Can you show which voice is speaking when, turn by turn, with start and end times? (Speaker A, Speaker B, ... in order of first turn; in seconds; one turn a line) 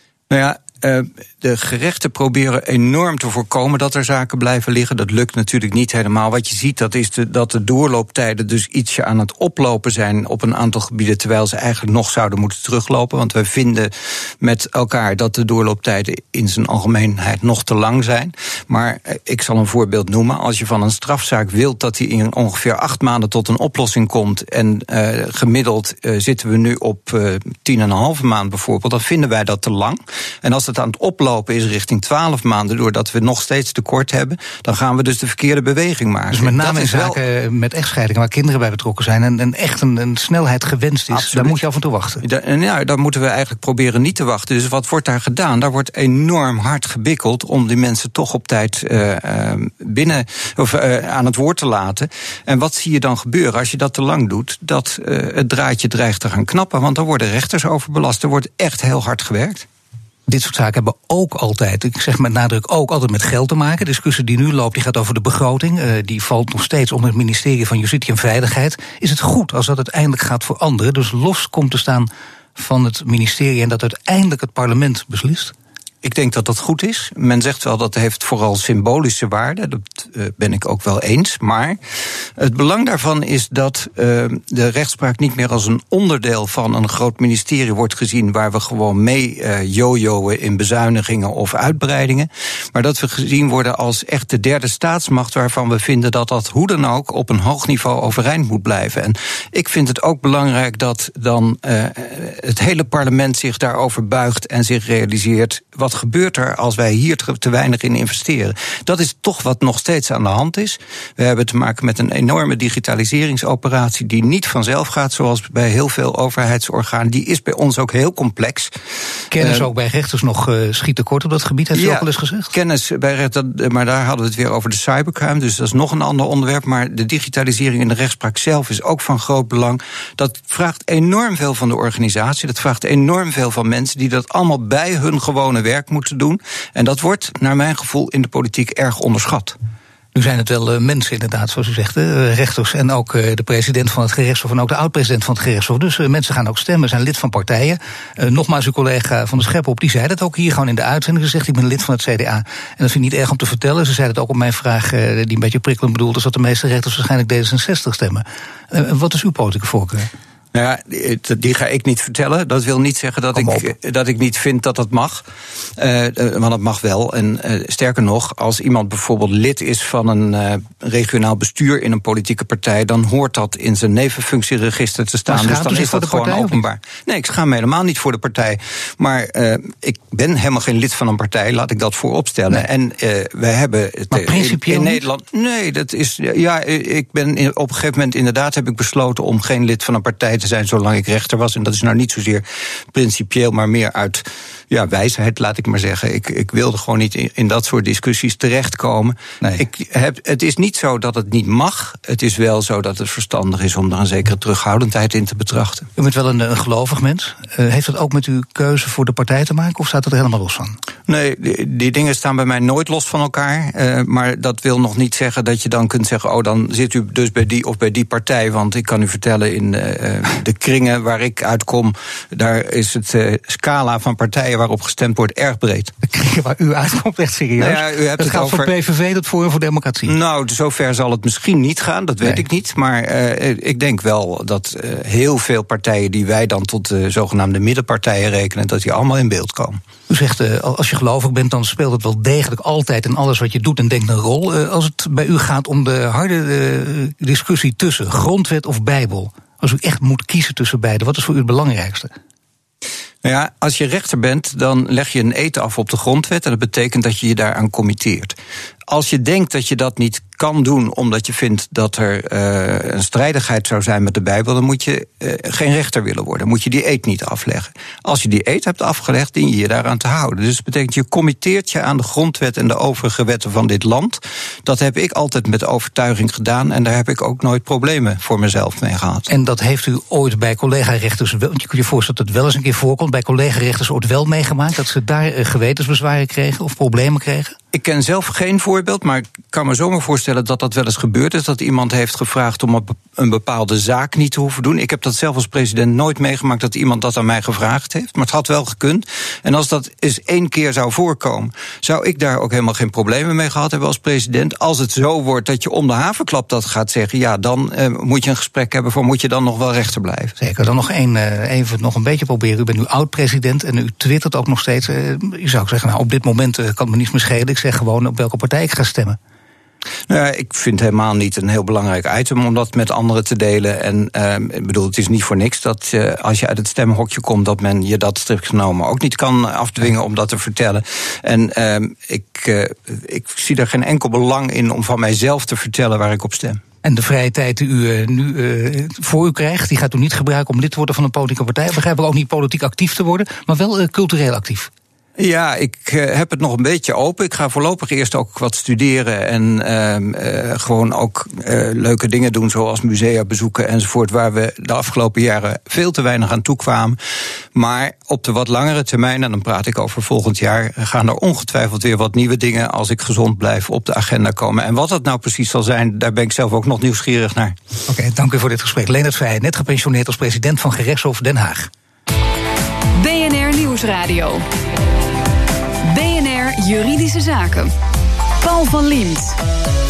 Speaker A: 0.3-37.2
Speaker B: 36.3-42.2
Speaker A: 41.1-41.6
Speaker A: 42.2-59.6
Speaker B: 60.3-75.5
Speaker A: 76.0-81.8
Speaker A: 82.3-118.7
Speaker B: 119.3-122.5
Speaker A: 119.3-119.7
Speaker A: 121.7-139.6
Speaker B: 140.1-160.1
Speaker A: 160.5-165.2
Speaker B: 163.3-163.7
Speaker A: 165.8-205.9
Speaker B: 175.3-176.6
Speaker B: 184.1-185.0
Speaker B: 206.0-210.8
Speaker A: 211.1-225.9
Speaker B: 226.0-230.1
Speaker A: 227.6-228.7
Speaker A: 230.0-239.8
Speaker B: 240.1-252.1
Speaker A: 253.2-258.4
Speaker A: 258.9-279.3
Speaker B: 279.3-287.6
Speaker A: 287.7-310.3
Speaker B: 310.4-319.2
Speaker A: 320.1-336.6
Speaker B: 336.8-344.7
Speaker A: 345.2-357.0
Speaker A: 357.5-367.6
Speaker B: 367.9-371.7
Speaker C: 372.9-374.4
Speaker C: 375.8-377.7
Speaker C: 378.4-379.4